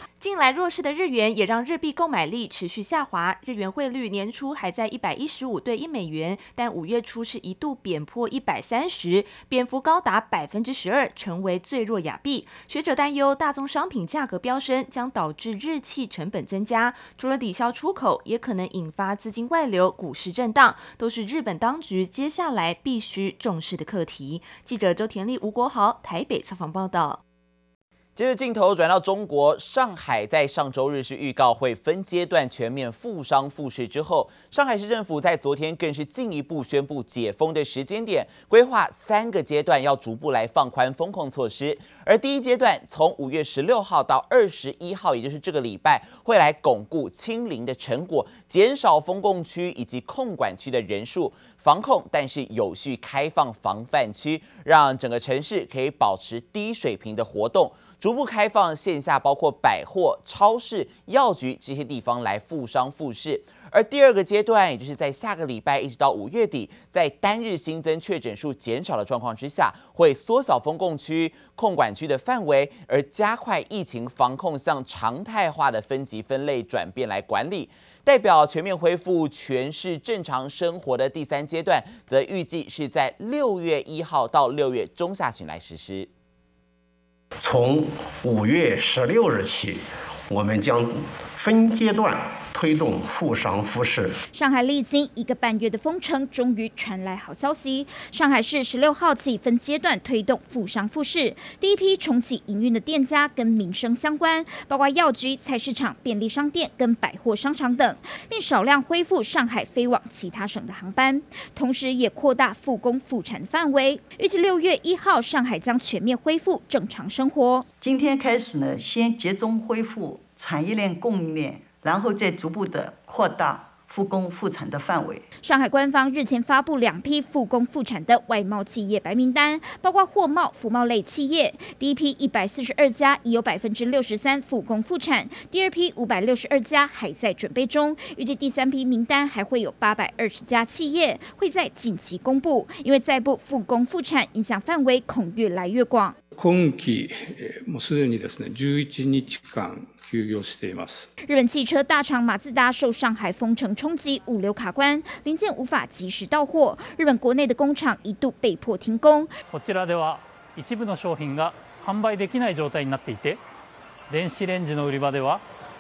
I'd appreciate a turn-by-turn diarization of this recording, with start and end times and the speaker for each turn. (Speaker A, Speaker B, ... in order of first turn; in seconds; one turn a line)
Speaker A: 0.2-27.2
Speaker B: 28.2-86.1
Speaker C: 87.4-94.2
Speaker D: 94.3-117.7
Speaker E: 117.8-125.2
Speaker D: 125.4-146.2
Speaker F: 146.4-147.1
Speaker F: 147.7-151.0
Speaker D: 151.3-159.4
Speaker G: 159.5-163.4
Speaker G: 164.1-165.4